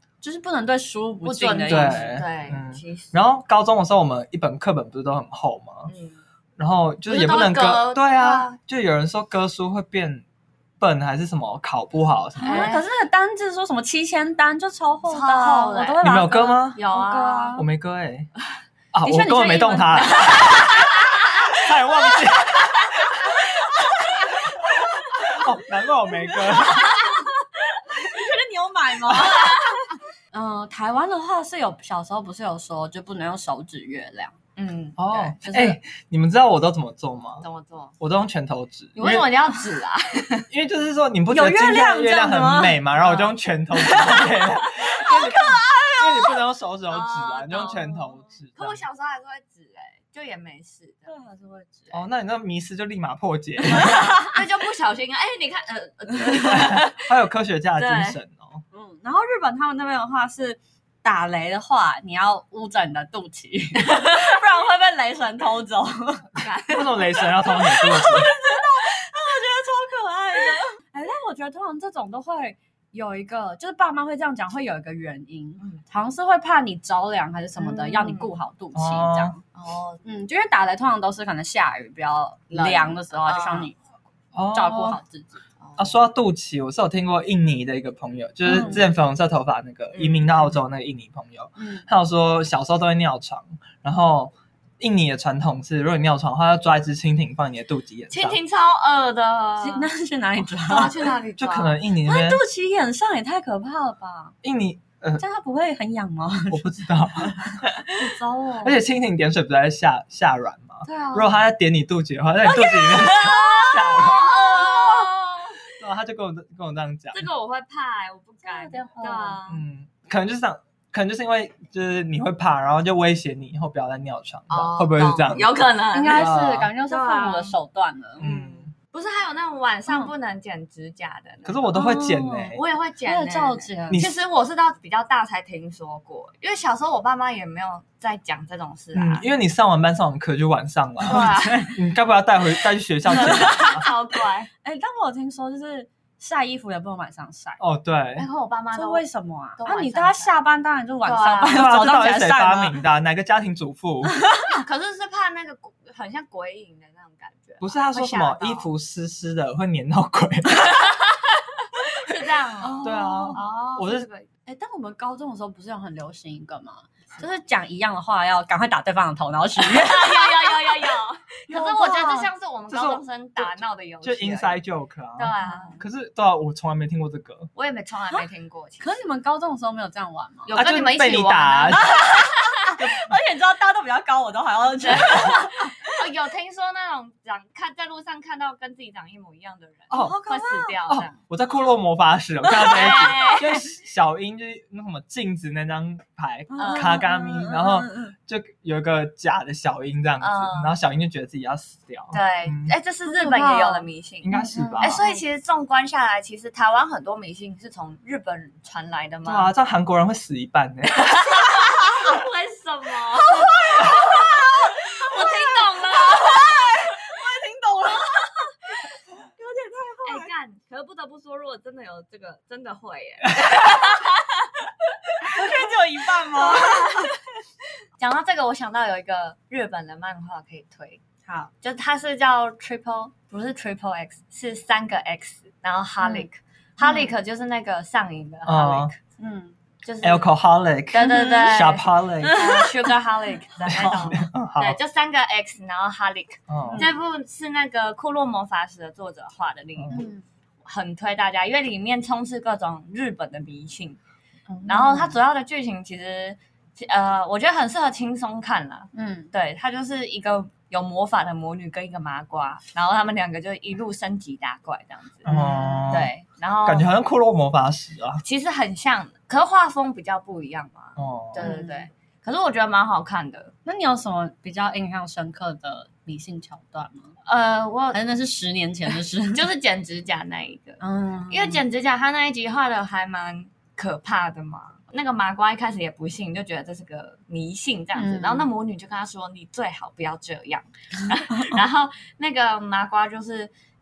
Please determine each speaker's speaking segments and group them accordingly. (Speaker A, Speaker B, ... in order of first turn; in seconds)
Speaker A: 0.2-2.1, 12.4-17.6, 19.0-21.0, 23.9-24.9, 26.2-27.2, 27.9-34.4, 35.4-35.8, 41.3-42.8, 43.8-46.3, 51.1-52.0, 53.8-54.4, 58.7-66.3, 67.5-79.4, 80.0-83.8, 84.5-85.4, 88.5-88.8, 91.6-91.8, 99.6-101.1, 102.0-104.3, 105.2-108.8, 110.8-111.3, 112.5-114.9, 118.4-119.4, 125.9-128.2, 131.7-134.0, 141.2-141.7, 143.2-143.9, 144.6-147.6, 148.7-152.8, 154.1-154.6, 162.6-163.4, 164.5-170.3, 171.5-172.3, 175.4-175.8, 178.8-180.6, 181.8-186.0, 189.9-190.8, 192.4-193.6, 196.5-198.1, 203.1-205.2, 213.5-218.5, 219.4-220.3, 225.2-227.1, 231.3-231.5, 236.0-236.3, 236.8-237.1, 239.2-239.5, 241.0-241.5, 242.2-242.9, 249.9-250.2, 254.5-255.2, 258.9-259.3, 265.3-266.0, 271.4-271.9, 273.6-277.1, 277.9-279.5, 280.8-281.6, 288.0-288.5
Speaker B: 1.2-3.2, 5.9-6.2, 7.1-8.6, 12.4-12.8, 15.1-16.0, 16.8-17.6, 20.2-20.9, 22.8-23.1, 26.9-27.1, 29.0-30.0, 34.6-35.4, 37.4-38.0, 39.0-40.5, 46.9-48.0, 48.6-51.1, 53.8-57.1, 57.8-58.2, 63.9-64.2, 66.4-67.4, 77.6-78.3, 79.5-80.0, 82.5-83.7, 85.6-86.0, 89.9-90.5, 98.1-99.9, 100.4-101.8, 113.0-115.6, 117.1-119.6, 124.5-127.5, 128.2-131.8, 132.5-139.3, 141.0-141.7, 143.1-144.5, 148.2-149.1, 149.6-150.3, 151.0-151.7, 154.5-158.7, 160.7-161.0, 161.8-164.3, 169.6-174.6, 175.2-175.8, 177.6-178.9, 180.5-182.3, 184.8-191.2, 192.6-193.5, 196.6-197.0, 200.2-200.8, 202.1-209.5, 211.0-217.0, 220.1-225.5, 226.3-227.2, 228.0-231.0, 231.6-239.0, 239.8-240.3, 240.9-250.1, 250.7-254.0, 254.7-266.9, 268.2-273.5, 277.3-278.0, 279.2-293.5
Speaker C: 1.7-5.9, 6.6-10.2, 10.8-12.7, 16.0-16.8, 17.6-18.3, 18.9-23.4, 24.4-27.0, 35.0-37.5, 38.0-39.3, 40.5-48.8, 51.9-54.2, 56.4-58.6, 66.7-68.3, 78.7-79.4, 84.3-85.0, 85.8-98.4, 101.4-102.4, 104.4-105.2, 106.5-114.3, 115.8-117.3, 119.5-125.5, 126.1-126.7, 128.2-128.7, 131.4-132.6, 133.9-134.2, 138.9-143.9, 147.6-148.3, 151.5-154.2, 157.6-160.7, 162.8-164.1, 172.7-177.5, 180.5-181.9, 182.8-183.1, 189.9-190.2, 190.9-202.7, 204.2-205.0, 209.2-211.7, 238.5-238.9, 240.0-242.5, 243.7-244.8, 246.5-246.9, 249.8-250.1, 265.2-266.1, 266.6-268.2, 271.0-271.5